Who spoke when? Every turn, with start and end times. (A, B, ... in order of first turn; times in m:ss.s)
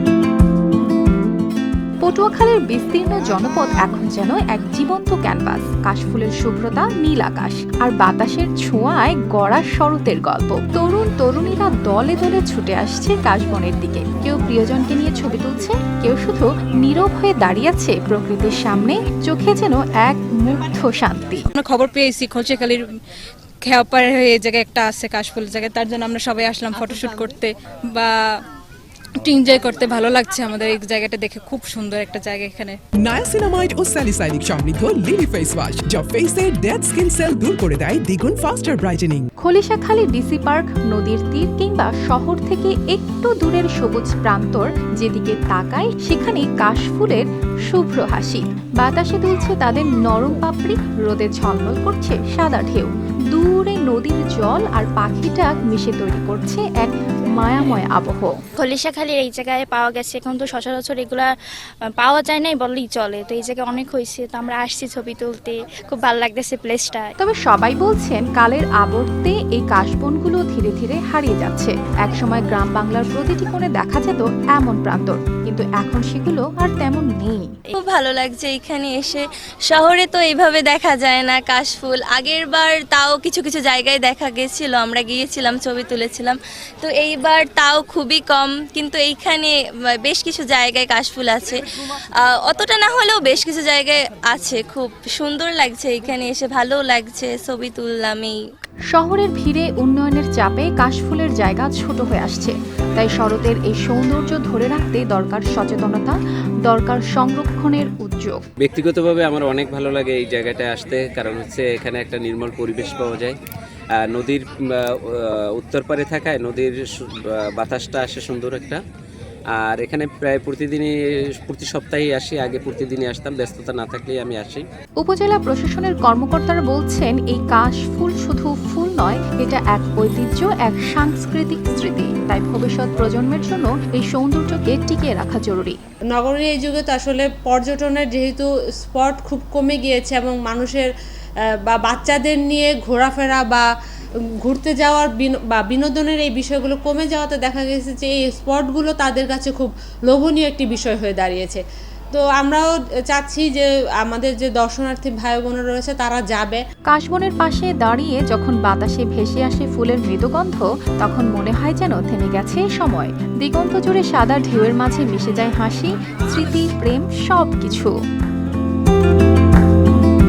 0:02.0-0:21.5 A
0:21.5-0:22.8 B
0:23.6-0:28.4 B
0:29.2-0:32.8 B
0:33.0-0:39.3 C
0:39.4-0:58.3 A
0:58.6-1:01.3 D
1:01.9-1:07.1 D
1:07.2-1:17.5 A
1:17.8-1:31.6 E
1:32.2-1:38.4 E
1:38.9-1:48.4 A
1:48.6-1:53.4 F
1:54.0-1:58.8 F
1:59.6-2:04.6 F
2:05.0-2:15.8 A
2:16.1-2:20.9 G
2:21.7-2:23.6 G
2:24.4-2:31.6 G
2:32.1-2:36.6 G
2:36.9-2:47.9 A